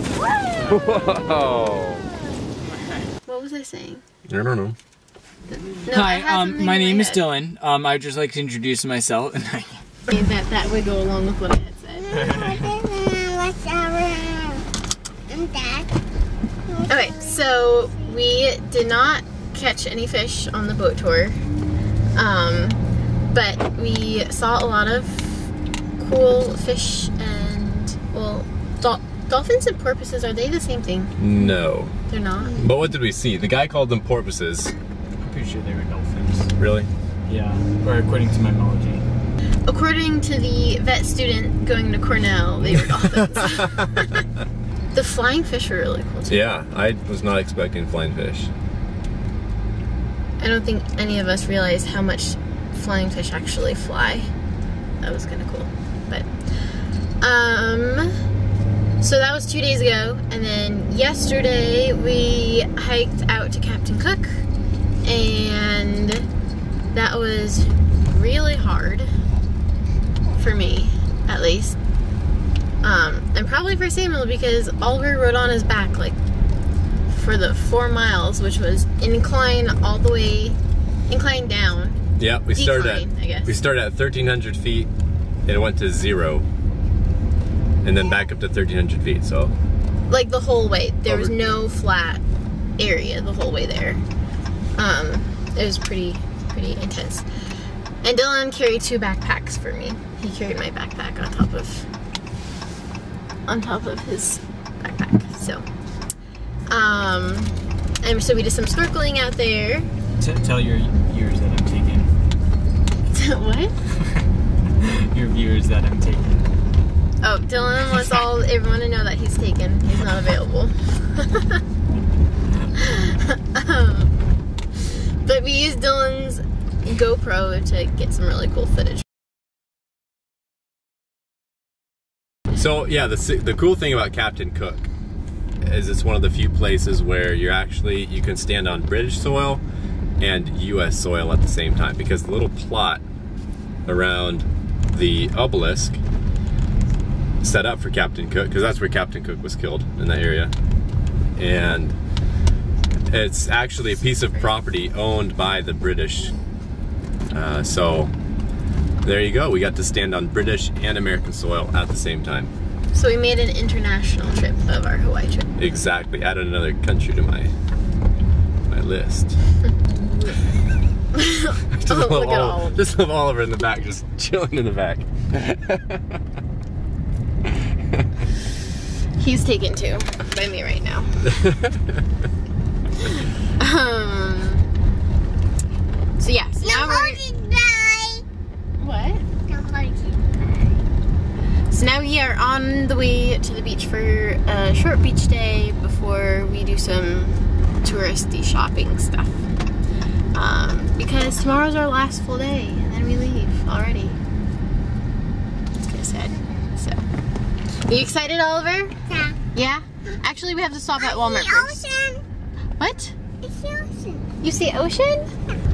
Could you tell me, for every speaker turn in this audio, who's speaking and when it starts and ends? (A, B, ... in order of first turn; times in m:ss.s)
0:00.6-0:02.1 A
0:03.2-0:04.0 B
0:04.3-0:04.8 A
0:05.5-0:07.2 B
0:05.9-0:09.8 C
0:10.1-0:12.4 B
0:12.1-0:14.6 D
0:15.3-0:15.9 D
0:16.6-0:17.5 D
0:16.9-0:21.4 B
0:22.2-0:31.1 B
0:31.2-0:31.9 A
0:32.1-0:32.6 B
0:32.5-0:34.7 A
0:35.2-0:36.5 C
0:36.6-0:36.9 A
0:37.3-0:39.0 C
0:39.7-0:44.2 B
0:43.0-0:43.5 A
0:44.9-0:46.5 B
0:46.3-0:48.5 A
0:50.4-0:54.3 B
0:55.0-0:56.3 B
0:57.2-0:58.1 B
0:59.0-1:04.4 B
1:05.0-1:06.3 B
1:06.9-1:09.1 B
1:10.3-1:11.8 B
1:12.8-1:16.2 B
1:17.1-1:22.0 B
1:22.2-1:24.9 A
1:22.5-1:23.5 B
1:25.4-1:26.4 A
1:27.8-1:29.5 A
1:30.1-1:32.2 B
1:31.0-1:31.6 A
1:32.8-1:34.0 B
1:34.8-1:37.3 B
1:38.0-1:41.8 B
1:43.4-1:45.6 B
1:46.7-1:49.9 B
1:50.2-1:52.1 C
1:53.1-1:53.7 B
1:54.8-1:56.4 C
1:57.2-2:01.6 B
2:02.7-2:04.1 B
2:05.2-2:09.0 B
2:12.5-2:14.9 A
2:15.6-2:19.6 A
2:20.2-2:23.0 A
2:23.8-2:26.0 A
2:27.4-2:30.5 A
2:31.4-2:32.0 A
2:33.1-2:36.3 A
2:37.3-2:38.1 A
2:39.0-2:42.5 A
2:42.9-2:45.5 B
2:45.6-2:47.5 A
2:48.7-2:49.4 A
2:51.1-2:52.8 B
2:51.7-2:56.2 A
2:59.2-3:01.2 B
3:01.3-3:01.9 A
3:03.6-3:04.6 B
3:06.2-3:07.2 B
3:06.6-3:08.2 D
3:08.8-3:09.2 B
3:09.4-3:10.5 D
3:11.7-3:19.5 B
3:20.3-3:24.2 B
3:25.7-3:27.0 B
3:27.8-3:28.9 B
3:29.0-3:29.4 D
3:29.5-3:31.8 B
3:31.0-3:32.2 D
3:32.8-3:33.2 B
3:33.4-3:34.3 D
3:34.4-3:35.3 B